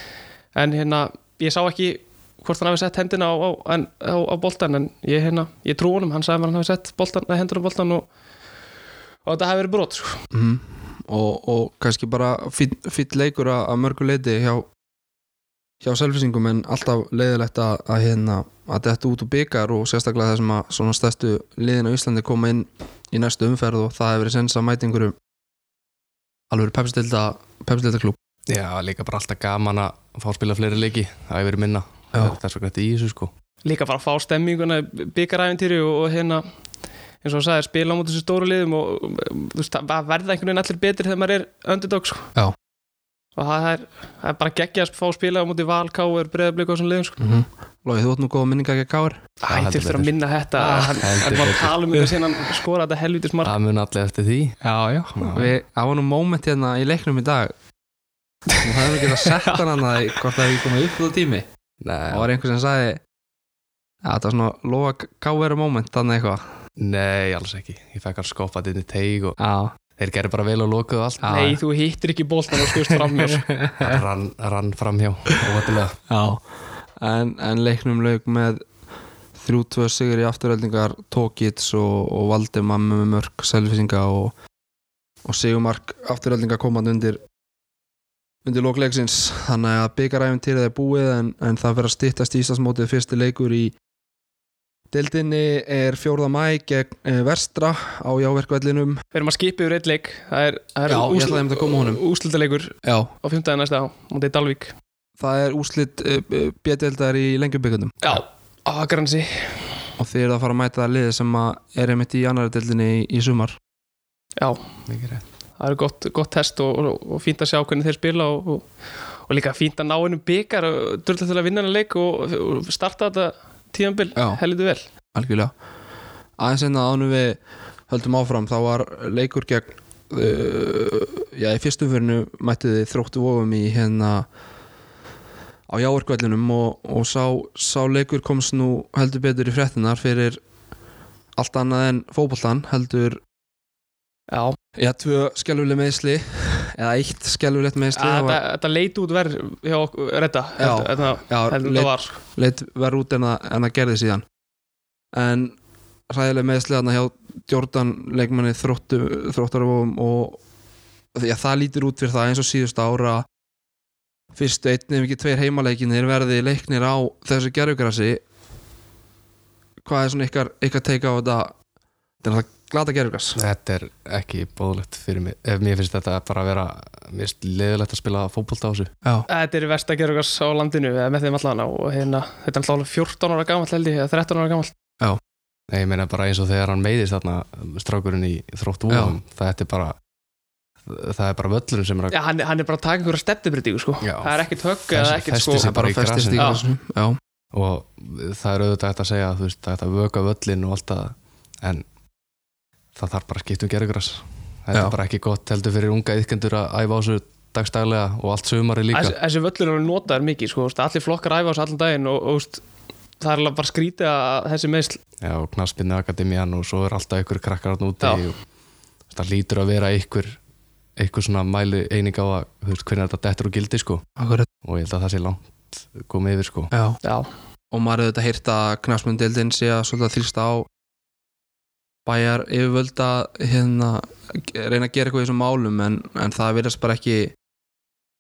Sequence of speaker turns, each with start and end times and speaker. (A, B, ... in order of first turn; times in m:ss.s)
0:00.6-0:08.1 A
0:09.2-0:10.2 A
0:10.3-0:14.7 B
0:15.8-0:25.2 B
0:26.5-0:28.2 B
0:28.5-0:33.3 C
0:33.6-0:36.4 A
0:37.2-0:42.3 A
0:43.4-0:47.2 A
0:47.2-0:49.3 B
0:49.4-0:53.5 A
0:49.5-0:50.2 C
0:50.6-0:51.0 B
0:51.0-0:51.8 C
0:53.4-0:54.6 C
0:54.6-0:57.5 B
0:55.1-0:55.5 C
0:58.5-0:59.6 A
0:58.6-1:01.5 B
1:01.8-1:02.3 C
1:02.1-1:03.0 B
1:04.0-1:06.6 B
1:06.8-1:09.4 C
1:09.4-1:09.7 B
1:10.0-1:11.4 C
1:11.2-1:11.6 B
1:11.3-1:13.5 A
1:12.5-1:14.0 B
1:13.8-1:16.0 C
1:16.1-1:16.4 B
1:17.0-1:18.6 B
1:19.4-1:24.3 B
1:25.2-1:27.2 B
1:28.4-1:33.7 B
1:34.9-1:39.0 B
1:39.1-1:44.7 A
1:40.9-1:42.0 B
1:42.8-1:43.1 B
1:45.2-1:48.0 B
1:48.0-1:49.8 A
1:50.0-1:53.6 B
1:54.4-1:54.6 A
1:54.9-1:55.2 C
1:55.6-1:58.7 A
1:59.3-2:04.9 A
2:05.2-2:05.5 B
2:06.4-2:14.3 B
2:15.7-2:20.4 B
2:21.4-2:23.2 B
2:24.3-2:24.6 A
2:24.8-2:28.4 B
2:27.9-2:32.2 A
2:30.6-2:34.2 B
2:35.1-2:35.6 B
2:36.1-2:40.4 B
2:41.1-2:43.3 B
2:44.4-2:48.2 B
2:49.8-2:51.5 B
2:52.2-2:53.4 B
2:53.4-2:58.9 C
2:59.3-3:04.7 A
3:05.7-3:10.0 C
3:08.9-3:09.1 B
3:10.9-3:12.2 C
3:12.1-3:15.7 A
3:14.0-3:16.5 C
3:15.5-3:17.2 B
3:16.4-3:16.6 A
3:17.5-3:21.8 C
3:23.0-3:29.2 C
3:28.9-3:32.6 A
3:33.2-3:35.0 A
3:35.2-3:38.4 C
3:39.1-3:40.4 C
3:41.0-3:44.0 C
3:44.2-3:44.5 B
3:44.6-3:46.7 C
3:46.7-3:47.0 B
3:47.0-3:47.3 A
3:47.7-3:50.7 B
3:52.1-3:57.4 B